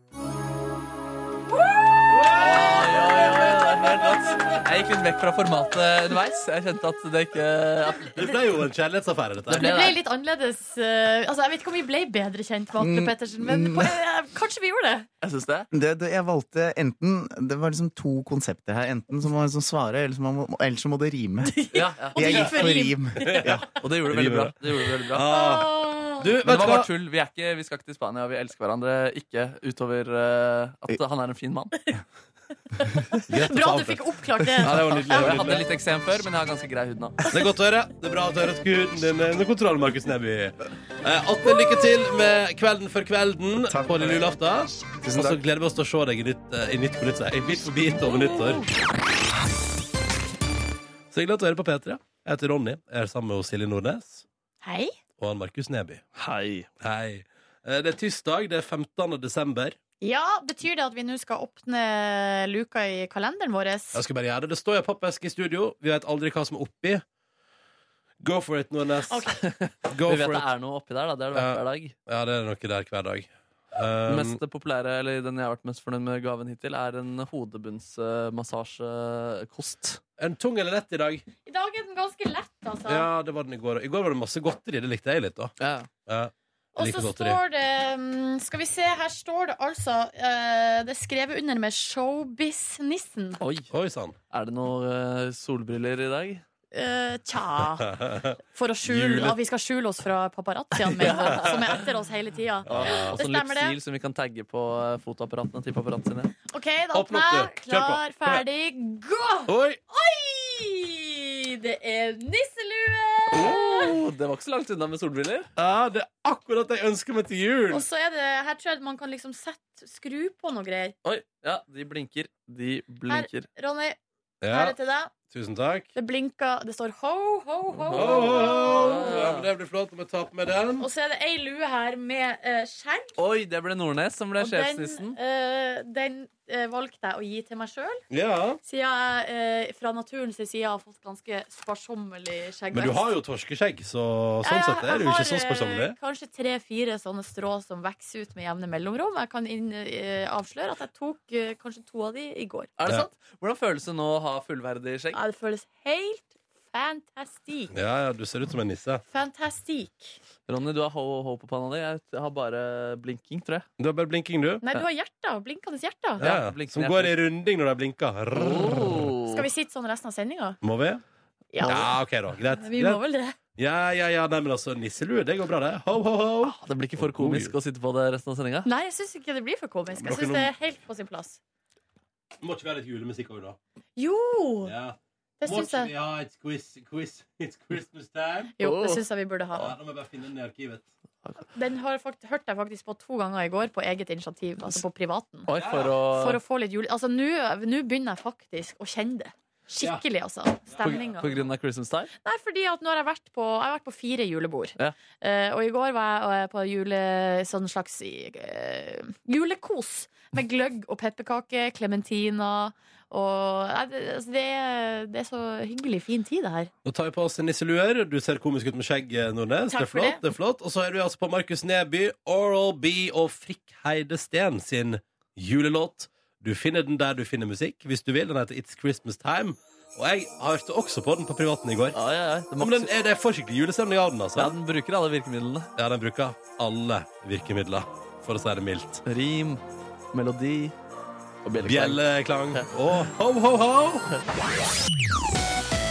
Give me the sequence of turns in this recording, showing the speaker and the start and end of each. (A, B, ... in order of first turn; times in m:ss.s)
0:01.6-0:02.3 A
0:02.1-0:04.6 B
0:02.4-0:08.2 C
0:08.1-0:09.7 B
0:09.5-0:10.0 C
0:09.5-0:15.1 A
0:12.8-0:14.0 D
0:15.2-0:15.7 C
0:15.7-0:23.7 D
0:21.4-0:23.6 A
0:21.7-0:22.7 C
0:23.2-0:24.6 B
0:23.8-0:25.3 C
0:25.1-0:26.9 B
0:25.3-0:26.3 A
0:26.4-0:31.8 C
0:32.8-0:35.5 A
0:33.3-0:34.0 B
0:34.6-0:35.7 B
0:35.0-0:37.2 C
0:37.3-0:48.6 B
0:43.7-0:44.3 D
0:44.8-0:45.4 D
0:51.1-0:54.2 B
0:54.6-0:54.9 A
0:55.2-0:56.1 B
0:56.2-0:56.7 C
0:56.8-0:59.8 B
1:00.0-1:04.0 A
1:03.9-1:07.0 B
1:08.2-1:09.4 B
1:09.1-1:09.4 A
1:09.4-1:11.9 C
1:09.9-1:10.5 B
1:11.3-1:14.4 B
1:14.1-1:20.0 C
1:20.2-1:21.2 B
1:21.5-1:23.1 A
1:22.9-1:25.5 B
1:25.6-1:25.9 C
1:26.1-1:27.4 B
1:26.8-1:33.4 A
1:33.4-1:33.7 C
1:33.7-1:34.2 B
1:34.3-1:36.4 C
1:36.7-1:38.0 A
1:38.0-1:39.4 B
1:38.5-1:43.8 A
1:41.0-1:41.8 C
1:41.1-1:41.6 B
1:42.7-1:43.2 B
1:42.7-1:46.3 C
1:46.5-1:53.9 A
1:46.9-1:48.4 B
1:49.5-1:49.8 B
1:53.3-1:55.5 C
1:55.6-1:57.8 B
1:57.7-2:01.0 A
2:01.0-2:03.5 C
2:03.1-2:04.0 A
2:04.4-2:04.8 B
2:04.5-2:05.1 A
2:05.3-2:05.9 B
2:06.0-2:09.1 A
2:07.9-2:09.5 C
2:08.0-2:10.9 B
2:10.8-2:13.2 A
2:13.2-2:15.2 C
2:14.4-2:18.0 A
2:18.1-2:18.6 B
2:18.6-2:23.0 A
2:22.7-2:26.0 B
2:24.4-2:32.7 A
2:32.8-2:35.2 C
2:35.1-2:37.7 A
2:37.7-2:39.0 B
2:39.1-2:40.2 A
2:40.5-2:43.7 C
2:43.8-2:44.6 B
2:44.6-2:46.2 A
2:46.2-2:47.2 C
2:46.2-2:49.1 B
2:48.4-2:49.5 C
2:49.3-2:50.6 A
2:50.6-2:51.0 B
2:51.5-2:51.9 A
2:51.6-2:53.0 B
2:52.6-2:53.4 A
2:53.6-2:57.6 B
2:56.4-2:58.7 C
2:58.6-3:01.4 A
3:00.0-3:00.5 B
3:02.4-3:03.6 B
3:04.0-3:04.7 A
3:04.6-3:08.5 B
3:05.4-3:05.9 A
3:08.6-3:09.7 A
3:08.6-3:09.0 C
3:09.5-3:10.9 B
3:11.5-3:15.5 A
3:15.5-3:16.4 C
3:15.5-3:15.9 B
3:16.1-3:21.4 A
3:20.7-3:21.0 B
3:20.8-3:22.1 C
3:22.2-3:36.7 A
3:36.8-3:52.0 B
3:39.7-3:40.2 A
3:51.9-3:52.9 C
3:52.6-3:54.6 B
3:54.4-3:55.7 C
3:55.8-3:59.0 B
3:59.0-3:59.6 C
4:00.1-4:00.8 C
4:01.4-4:02.0 C
4:01.6-4:04.1 B